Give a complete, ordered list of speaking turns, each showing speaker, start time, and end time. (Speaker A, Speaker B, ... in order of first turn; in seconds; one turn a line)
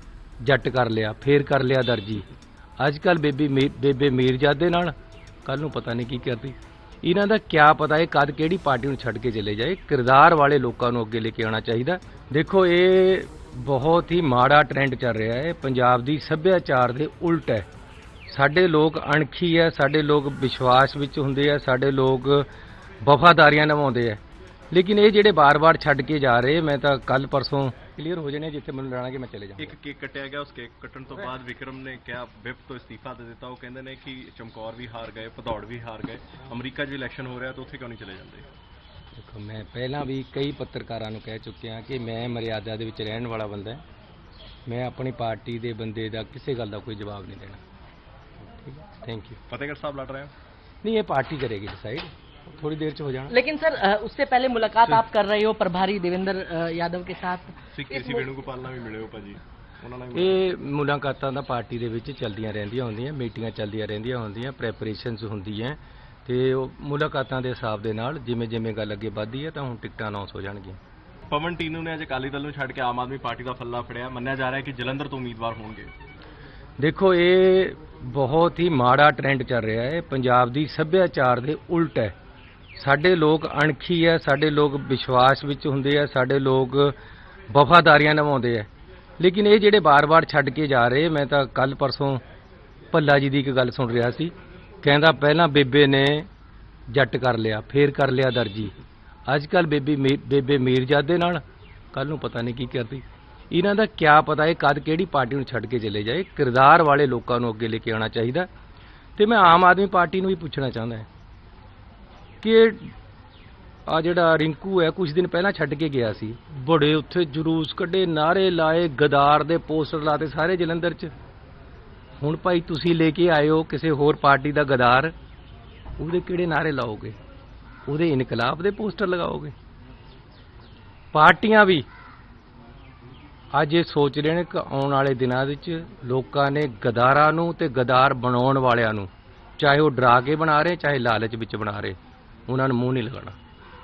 Speaker A: 0.4-2.3
Speaker A: 2.8-4.9
Speaker A: 5.4-17.7
Speaker A: 18.3-22.5
Speaker A: 23.0-29.8
Speaker B: 29.6-38.5
Speaker A: 39.1-43.8
Speaker A: 44.6-47.6
Speaker A: 48.5-49.4
Speaker B: 49.5-50.3
Speaker A: 50.8-53.4
Speaker C: 53.3-58.2
Speaker B: 57.7-60.5
Speaker A: 60.1-70.8
Speaker B: 71.3-75.9
Speaker A: 76.8-82.1
Speaker A: 82.8-87.0
Speaker A: 87.5-92.2
Speaker A: 92.9-96.3
Speaker A: 96.9-108.5
Speaker A: 109.2-111.1
Speaker A: 112.4-112.9
Speaker A: 113.9-121.1
Speaker A: 122.2-125.1
Speaker A: 126.0-127.2
Speaker A: 127.9-129.5
Speaker A: 131.1-131.8
Speaker A: 133.5-143.4